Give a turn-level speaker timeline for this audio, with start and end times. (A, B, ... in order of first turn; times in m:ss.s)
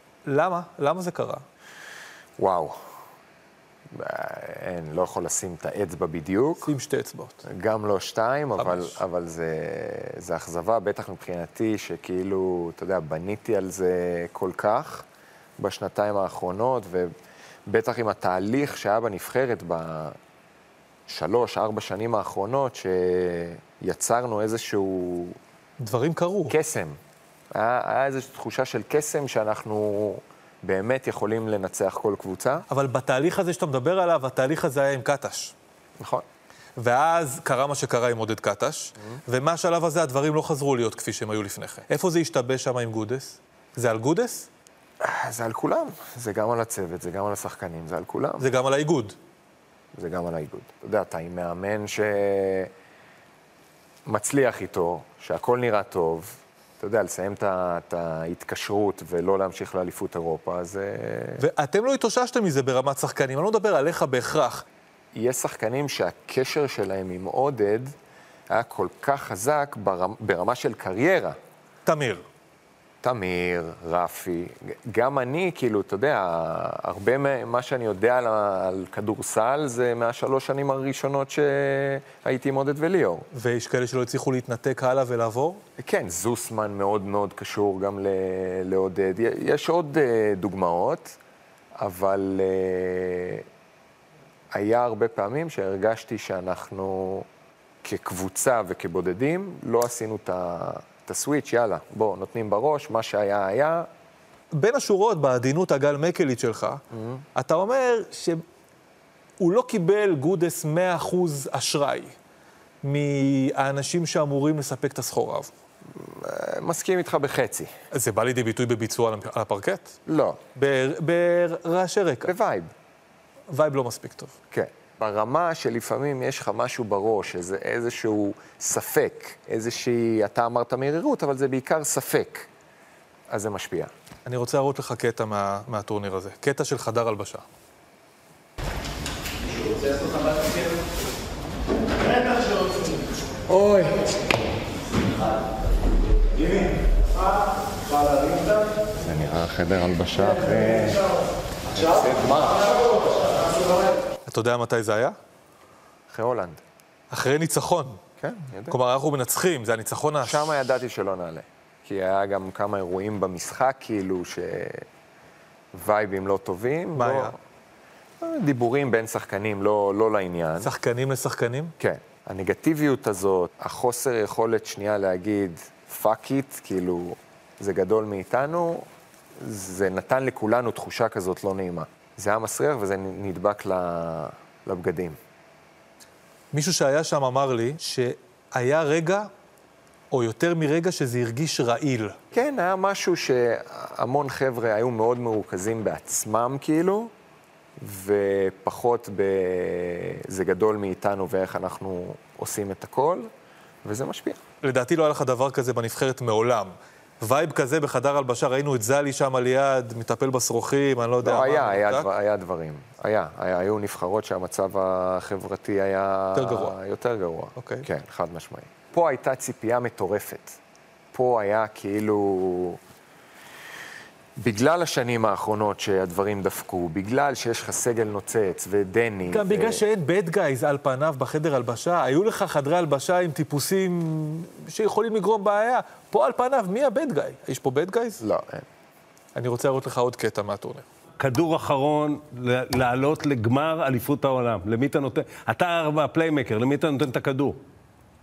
0:00.3-0:01.4 A
0:02.4-0:02.8 B
0:03.9-0:06.7 B
0:06.6-0:07.4 A
0:07.4-0:15.1 B
0:08.6-0:09.0 A
0:15.6-0:17.1 B
0:17.7-0:20.2 B
0:21.1-0:25.4 B
0:25.8-0:26.6 A
0:26.5-0:27.0 B
0:27.5-0:32.6 B
0:32.7-0:35.5 A
0:36.0-0:36.2 B
0:36.8-0:44.5 A
0:45.0-0:48.5 B
0:48.4-0:49.2 A
0:49.9-0:52.7 B
0:54.1-1:01.4 B
1:01.4-1:04.6 A
1:05.1-1:07.9 B
1:08.5-1:11.4 B
1:11.9-1:12.2 A
1:13.0-1:23.3 B
1:23.3-1:25.6 A
1:25.8-1:31.2 B
1:31.8-1:33.5 B
1:34.5-1:37.3 B
1:37.8-1:43.9 B
1:44.5-1:46.8 A
1:46.9-1:47.2 B
1:47.4-1:48.4 A
1:49.4-1:52.1 A
1:52.8-1:55.5 A
1:55.9-1:57.7 B
1:57.9-2:00.0 A
2:00.1-2:00.4 B
2:00.6-2:02.3 A
2:02.2-2:02.7 B
2:03.5-2:04.3 A
2:04.5-2:12.5 B
2:13.3-2:13.9 B
2:14.3-2:17.4 A
2:23.5-2:24.1 B
2:28.9-2:31.1 B
2:31.7-2:33.3 B
2:34.3-2:35.2 A
2:36.1-2:36.6 B
2:37.1-2:38.0 A
2:38.2-2:38.8 B
2:38.7-2:40.6 A
2:40.2-2:44.9 B
2:45.7-2:47.4 B
2:47.0-2:47.4 A
2:48.2-2:50.7 B
2:50.6-2:51.8 A
2:51.8-2:58.9 B
2:59.4-3:05.2 B
3:06.5-3:09.3 A
3:10.1-3:12.2 A
3:12.3-3:17.1 B
3:17.8-3:23.3 B
3:23.8-3:24.4 B
3:24.6-3:32.1 A
3:31.2-3:40.6 B
3:36.4-3:36.7 A
3:37.6-3:37.9 A
3:41.1-3:42.8 B
3:44.4-3:49.8 B
3:49.3-3:58.2 A
3:58.2-3:58.7 B
3:59.4-4:00.8 A
4:01.2-4:07.6 C